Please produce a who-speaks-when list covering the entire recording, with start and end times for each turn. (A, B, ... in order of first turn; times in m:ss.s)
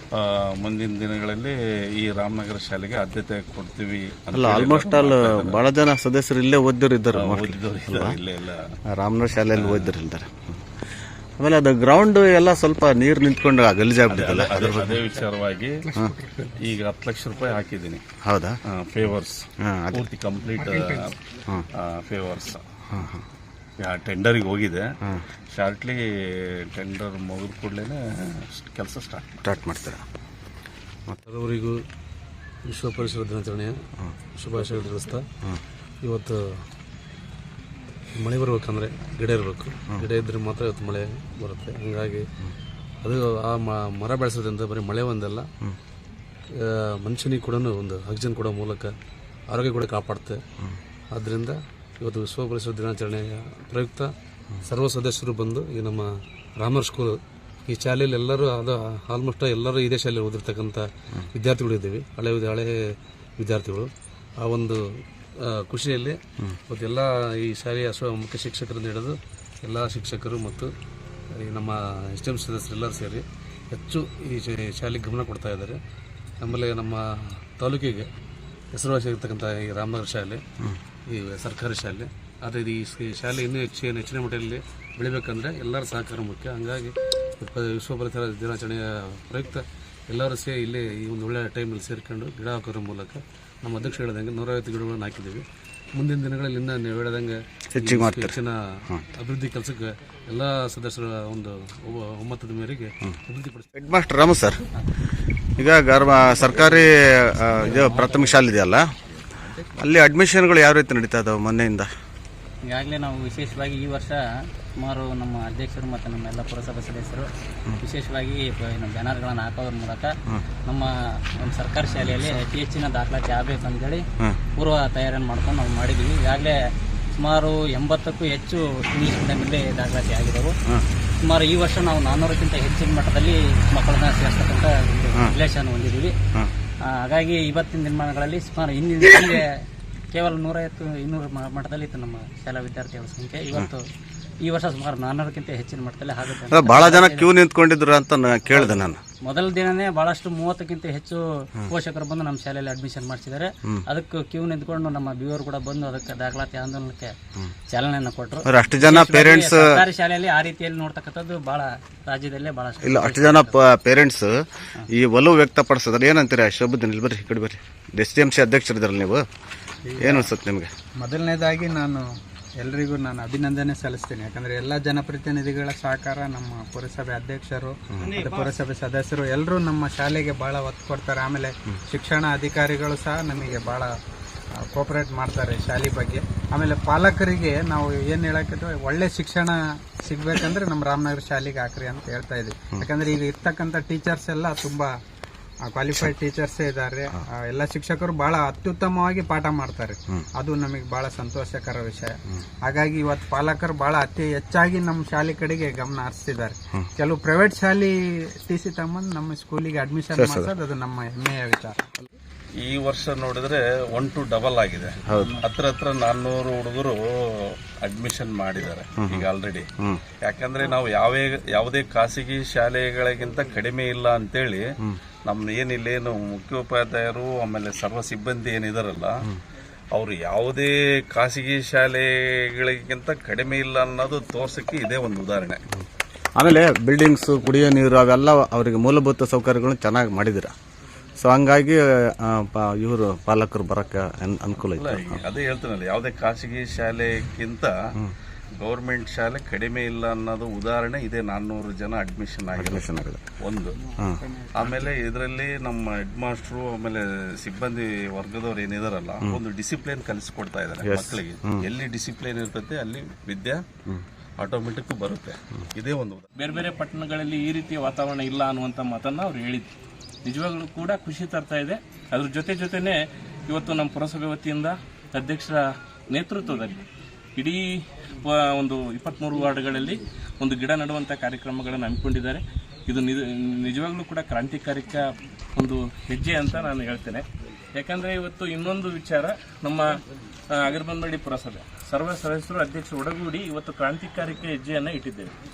0:00.1-0:05.6 A
0:04.3-0:08.2 B
0:07.1-0:08.7 A
0:08.9-0:10.6 B
0:09.5-0:09.9 A
0:11.4-0:15.0 B
0:14.1-0:15.9 A
0:15.9-0:16.5 C
0:16.5-0:18.0 A
0:18.2-0:18.6 B
0:18.7-0:21.1 A
0:19.6-0:20.0 B
0:20.6-0:21.1 C
0:21.7-0:22.6 A
0:22.9-0:23.2 B
0:23.8-0:24.9 A
0:25.5-0:29.4 A
0:29.4-0:30.0 B
0:31.2-0:31.8 D
0:32.7-0:33.8 D
0:34.4-0:35.3 D
0:36.0-0:36.6 D
0:38.1-0:42.3 D
0:43.0-0:45.5 D
0:46.5-0:48.9 D
0:49.5-0:50.4 D
0:51.1-0:54.1 D
0:54.6-1:02.7 D
1:03.4-1:10.7 D
1:11.3-1:15.8 D
1:16.4-1:18.1 D
1:18.7-1:20.4 D
1:21.1-1:43.7 D
1:37.7-1:38.4 B
1:43.7-1:44.6 B
1:45.5-1:48.9 B
1:49.7-1:51.9 B
1:52.6-1:54.2 E
1:54.8-1:57.3 E
1:57.8-2:00.2 E
2:00.7-2:04.0 E
2:02.0-2:02.3 B
2:04.6-2:06.6 E
2:07.2-2:10.6 E
2:11.2-2:16.1 E
2:16.9-2:19.5 E
2:20.1-2:23.8 E
2:24.4-2:27.3 E
2:26.5-2:29.0 B
2:28.5-2:37.1 E
2:37.7-2:43.6 E
2:38.4-2:39.8 B
2:42.8-2:49.2 B
2:49.8-2:50.3 C
2:50.0-2:50.7 B
2:51.0-2:52.1 C
2:52.6-3:03.9 C
3:04.6-3:14.9 C
3:15.6-3:27.9 C
3:28.4-3:32.0 C
3:30.1-3:30.5 B
3:32.6-3:39.7 A
3:35.0-3:35.4 B
3:39.0-3:39.3 B
3:40.2-3:49.3 A
3:49.9-3:55.6 A
3:56.4-4:00.5 B
4:01.2-4:05.2 B
4:04.7-4:07.7 A
4:08.5-4:12.8 A
4:12.5-4:13.2 B
4:13.4-4:13.8 A
4:13.7-4:14.6 C
4:14.5-4:23.6 A
4:20.8-4:21.6 B
4:24.4-4:26.3 A
4:26.4-4:29.7 F
4:30.2-4:36.8 F
4:37.4-4:47.2 F
4:47.8-4:49.9 F
4:50.5-4:55.3 F